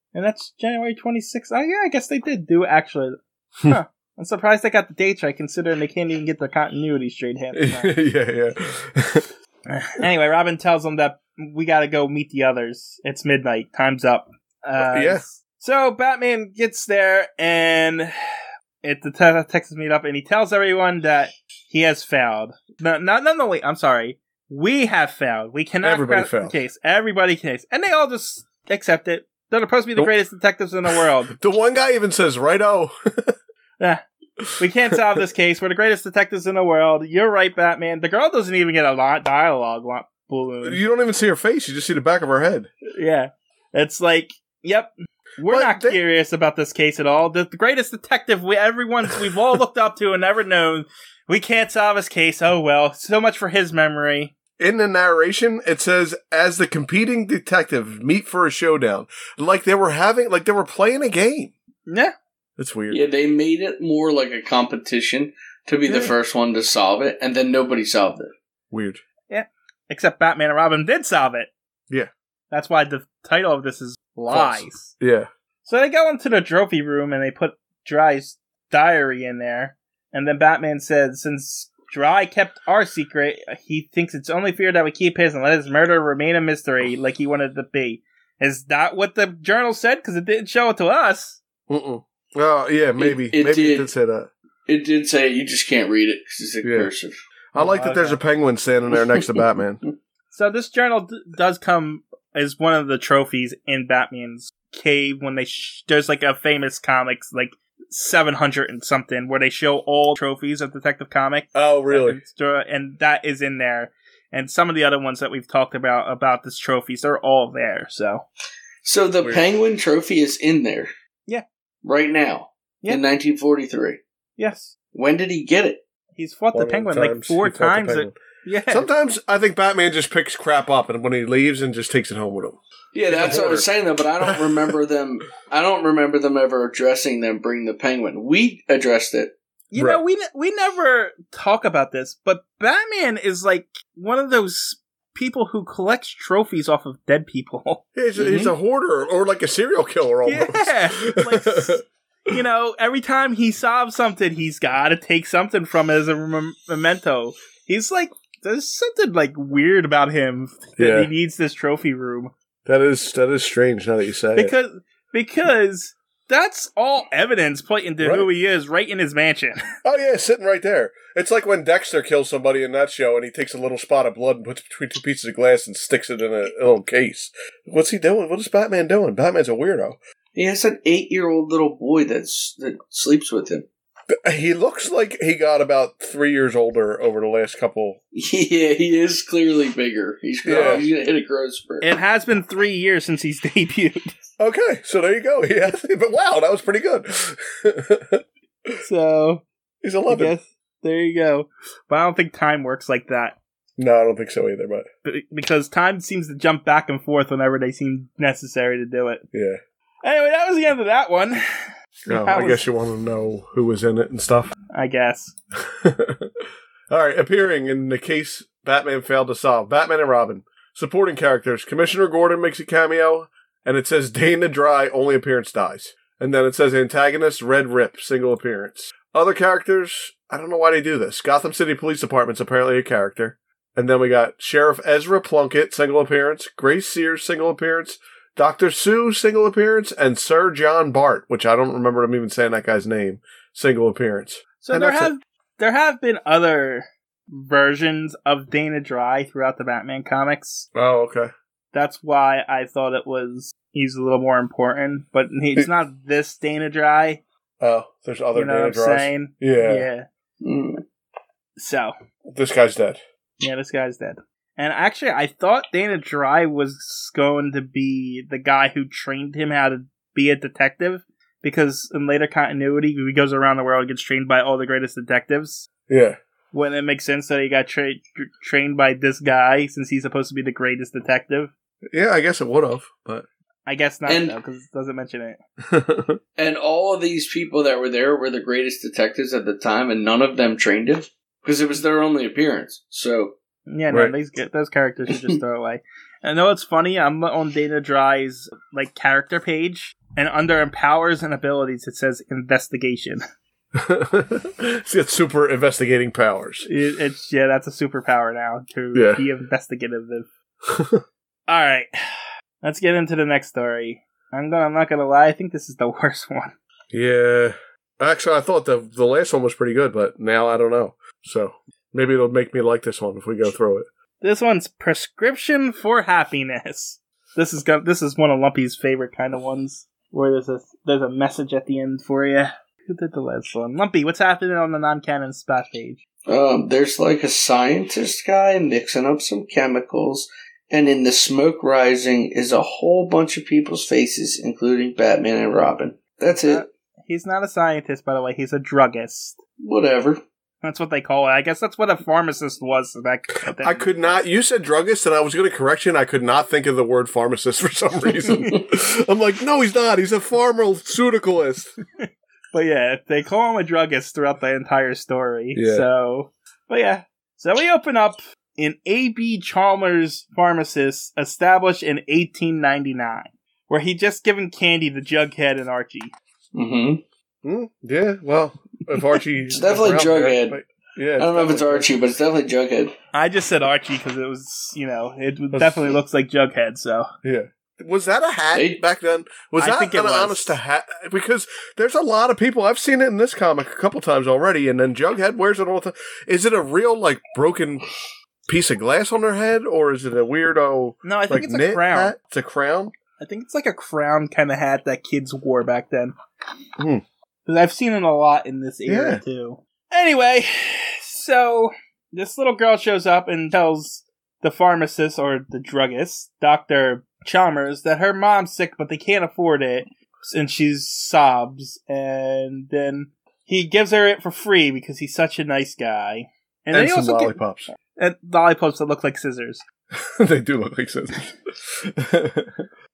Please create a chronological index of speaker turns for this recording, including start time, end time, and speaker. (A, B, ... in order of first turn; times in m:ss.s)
0:00.1-0:08.0 A
0:07.5-0:09.3 B
0:09.7-0:18.1 A
0:14.8-0:15.2 B
0:18.8-0:31.3 A
0:25.8-0:26.6 B
0:31.3-0:33.3 B
0:34.6-0:40.8 A
0:40.6-0:42.7 B
0:42.9-0:54.3 A
0:45.5-0:46.0 B
0:54.6-1:01.5 B
1:01.9-1:02.1 A
1:02.6-1:03.0 B
1:02.9-1:08.3 C
1:08.7-1:09.0 B
1:09.3-1:11.5 A
1:12.5-1:14.9 A
1:14.3-1:15.3 B
1:15.6-1:31.4 A
1:31.7-1:34.3 B
1:33.0-1:33.9 C
1:34.7-1:37.2 C
1:36.6-1:36.9 B
1:37.5-1:39.8 B
1:37.5-1:38.2 A
1:40.3-1:58.2 A
1:51.5-1:52.2 B
1:58.8-2:00.9 C
2:01.8-2:04.0 C
2:04.4-2:04.7 A
2:04.9-2:05.8 C
2:06.1-2:08.9 A
2:06.5-2:12.6 B
2:12.9-2:19.3 C
2:13.1-2:13.7 B
2:14.2-2:14.7 B
2:19.7-2:28.5 A
2:19.8-2:20.0 B
2:27.9-2:31.8 B
2:30.2-2:42.3 A
2:40.8-2:41.1 B
2:42.6-2:44.5 B
2:44.3-2:49.6 A
2:48.0-2:48.3 B
2:49.8-3:00.0 B
3:00.3-3:03.6 C
3:04.1-3:08.0 B
3:08.1-3:11.9 C
3:10.4-3:10.8 B
3:10.5-3:10.8 A
3:11.8-3:14.1 A
3:14.4-3:18.8 B
3:18.8-3:19.4 A
3:19.8-3:20.3 B
3:20.1-3:23.4 A
3:23.8-3:24.8 B
3:25.0-3:29.2 A
3:29.3-3:29.6 B
3:30.0-3:32.6 A
3:32.0-3:34.5 B
3:34.7-3:35.3 A
3:35.6-3:36.3 B
3:36.9-4:05.1 B
4:04.6-4:10.7 A
4:10.7-4:11.3 B
4:11.7-4:17.2 A
4:17.6-4:19.9 B
4:18.3-4:20.1 A
4:20.4-4:20.8 C
4:21.6-4:21.9 A
4:22.3-4:23.0 B
4:23.4-4:35.7 A
4:35.9-4:36.2 B
4:36.5-4:41.5 A
4:41.9-4:43.3 B
4:43.6-4:45.4 A
4:44.0-4:44.4 C
4:45.7-4:46.2 B
4:46.4-4:53.4 C
4:53.7-5:03.2 A
4:55.1-4:55.4 C
5:03.8-5:06.7 B
5:06.7-5:10.3 A
5:08.9-5:09.2 B
5:10.7-5:11.0 B
5:11.5-5:11.9 A
5:12.6-5:16.5 A
5:16.9-5:23.9 B
5:24.2-5:36.0 A
5:36.3-5:46.6 C
5:46.4-5:49.4 A
5:49.6-5:50.2 C
5:50.6-5:53.9 A
5:53.5-6:01.8 B
5:58.3-5:58.5 A
6:02.0-6:16.1 A
6:05.5-6:05.8 B
6:16.5-6:17.0 C
6:17.4-6:21.9 B
6:19.5-6:20.6 C
6:21.2-6:22.9 C
6:23.1-6:27.1 A
6:25.5-6:25.9 B
6:27.2-6:37.8 B
6:28.5-6:28.8 C
6:29.6-6:30.6 A
6:38.5-6:42.9 B
6:41.0-6:42.1 A
6:43.2-6:46.1 A
6:46.8-6:47.0 B
6:47.4-7:09.6 A
6:48.9-6:49.2 B
7:06.7-7:07.7 B
7:09.9-7:12.6 B